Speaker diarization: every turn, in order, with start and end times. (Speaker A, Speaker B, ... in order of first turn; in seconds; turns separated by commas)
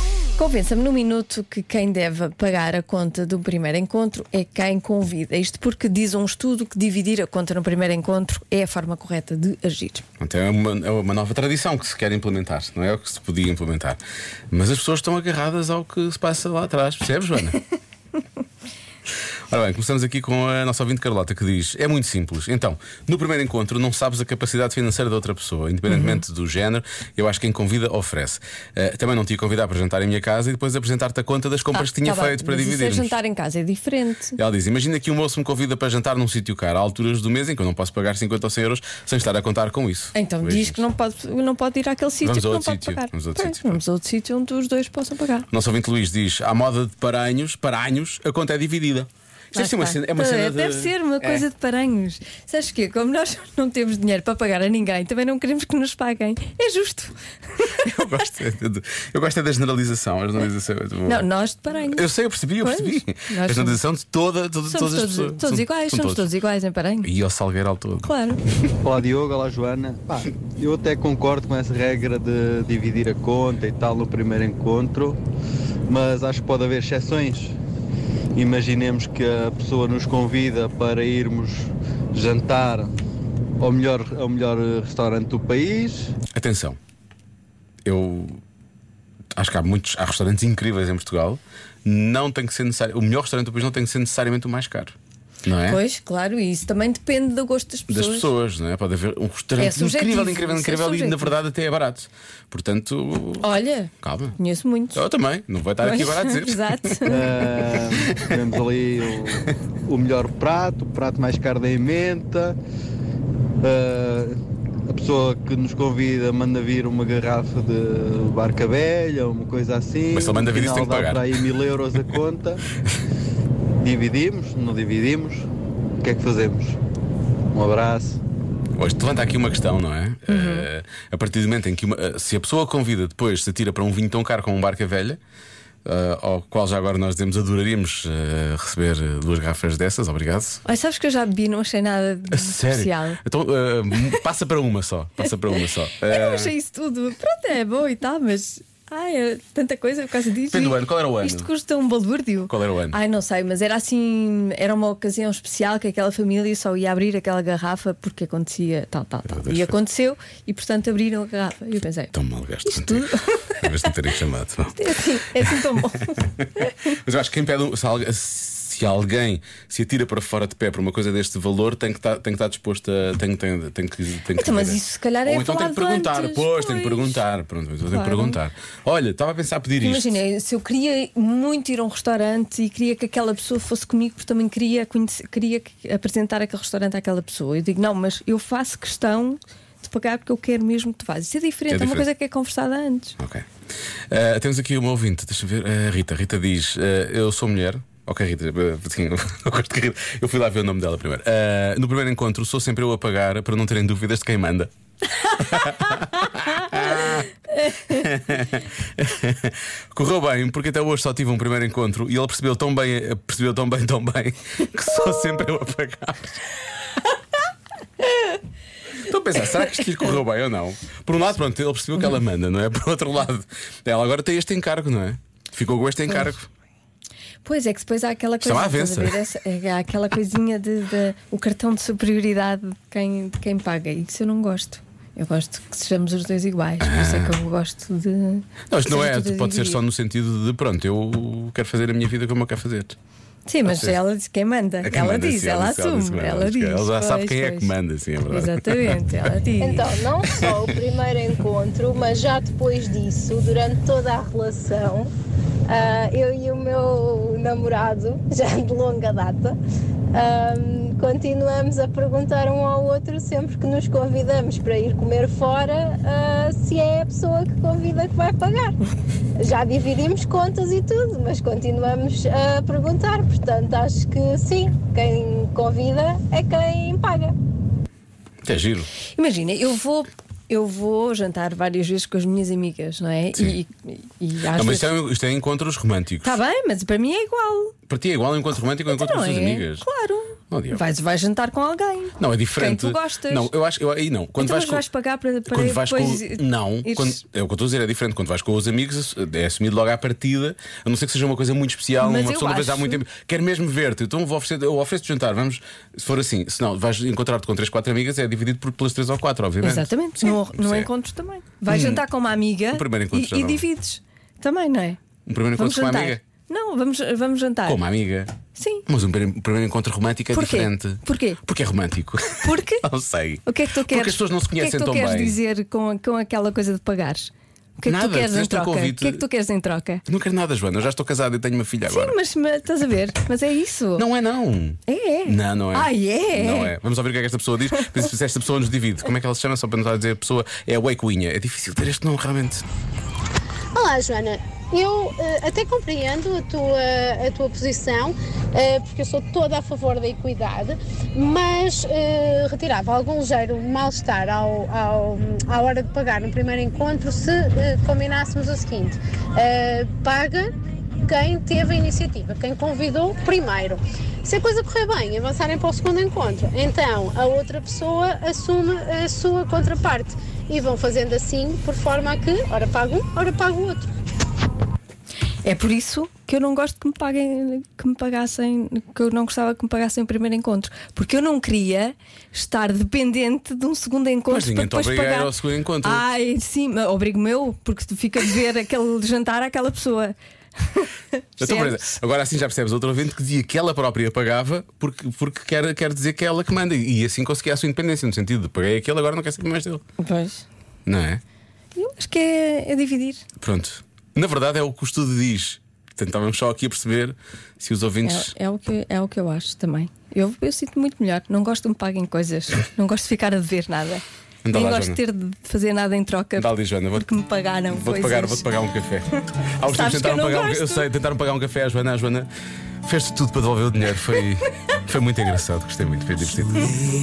Speaker A: 0.3-10.1, Speaker B: 10.2-14.0, Speaker B: 14.5-17.6, Speaker B: 19.5-33.2, Speaker A: 25.9-26.2, Speaker A: 31.7-34.4, Speaker B: 34.4-40.8, Speaker A: 40.1-45.5, Speaker B: 42.2-43.8, Speaker B: 45.5-51.5, Speaker A: 49.5-57.7, Speaker B: 57.8-61.3, Speaker A: 61.0-62.1, Speaker B: 61.8-66.3, Speaker A: 62.6-63.8, Speaker A: 64.7-67.1, Speaker B: 67.0-68.1, Speaker A: 68.0-68.4, Speaker C: 68.8-75.2, Speaker C: 75.9-77.6, Speaker C: 78.3-82.9, Speaker C: 83.6-86.2, Speaker B: 86.3-86.8, Speaker B: 87.8-88.4, Speaker B: 89.3-95.8, Speaker A: 95.7-98.3, Speaker B: 97.9-103.5, Speaker A: 99.6-101.3, Speaker A: 103.4-105.0, Speaker B: 104.0-104.4, Speaker B: 105.0-107.1, Speaker A: 105.8-107.3, Speaker C: 107.1-112.6, Speaker C: 113.6-122.6, Speaker B: 120.1-121.5, Speaker C: 123.8-125.5, Speaker C: 126.0-126.8, Speaker C: 127.5-128.2, Speaker B: 128.8-135.2, Speaker A: 130.3-130.7, Speaker B: 135.8-140.6, Speaker A: 140.7-143.2, Speaker B: 142.3-146.5, Speaker A: 145.5-162.1, Speaker B: 150.5-151.5, Speaker B: 152.5-153.0, Speaker B: 159.4-159.7, Speaker B: 162.1-164.8, Speaker A: 162.7-163.7, Speaker A: 164.7-166.7, Speaker B: 166.1-166.3, Speaker B: 166.9-180.2, Speaker A: 174.3-177.2, Speaker A: 177.9-178.4, Speaker A: 179.8-193.2, Speaker B: 191.7-192.1, Speaker B: 193.2-193.4, Speaker B: 194.1-204.7, Speaker B: 205.3-207.3, Speaker A: 205.5-208.0, Speaker B: 207.9-216.4, Speaker B: 219.0-226.5, Speaker A: 227.4-239.8, Speaker B: 228.4-229.2, Speaker B: 236.8-237.4, Speaker B: 238.7-243.0, Speaker A: 243.5-247.8, Speaker B: 243.7-244.0, Speaker B: 244.8-249.3, Speaker A: 248.3-249.9, Speaker D: 249.6-255.1, Speaker B: 250.3-250.6, Speaker D: 255.7-259.6, Speaker D: 260.1-268.8, Speaker D: 269.4-277.4, Speaker B: 278.4-278.9, Speaker A: 279.2-284.9, Speaker B: 284.5-286.4, Speaker A: 286.2-287.7, Speaker B: 287.9-289.9, Speaker A: 288.9-293.5, Speaker B: 290.5-290.8, Speaker B: 292.2-294.9, Speaker A: 294.4-297.2, Speaker B: 295.5-310.9, Speaker A: 302.0-303.0, Speaker A: 309.6-315.0, Speaker B: 311.7-312.0, Speaker B: 312.7-313.7, Speaker B: 315.3-316.2, Speaker A: 315.6-317.8, Speaker B: 317.7-318.4, Speaker A: 318.5-318.9, Speaker B: 318.9-325.4, Speaker A: 320.3-321.4, Speaker A: 322.4-322.9, Speaker A: 323.4-330.0, Speaker B: 327.9-329.2, Speaker B: 330.1-332.2, Speaker A: 331.9-334.1, Speaker B: 334.0-342.6, Speaker A: 334.9-336.7, Speaker E: 343.7-360.5, Speaker E: 361.1-373.9, Speaker A: 375.4-391.8, Speaker B: 384.3-386.0, Speaker B: 391.4-399.8, Speaker A: 400.0-400.5, Speaker B: 400.9-401.2, Speaker A: 401.8-403.2, Speaker B: 403.4-408.3, Speaker A: 408.0-418.4, Speaker B: 414.4-415.0, Speaker B: 416.4-417.1, Speaker B: 417.7-419.1, Speaker B: 419.6-422.3, Speaker A: 419.7-420.9, Speaker B: 422.8-426.8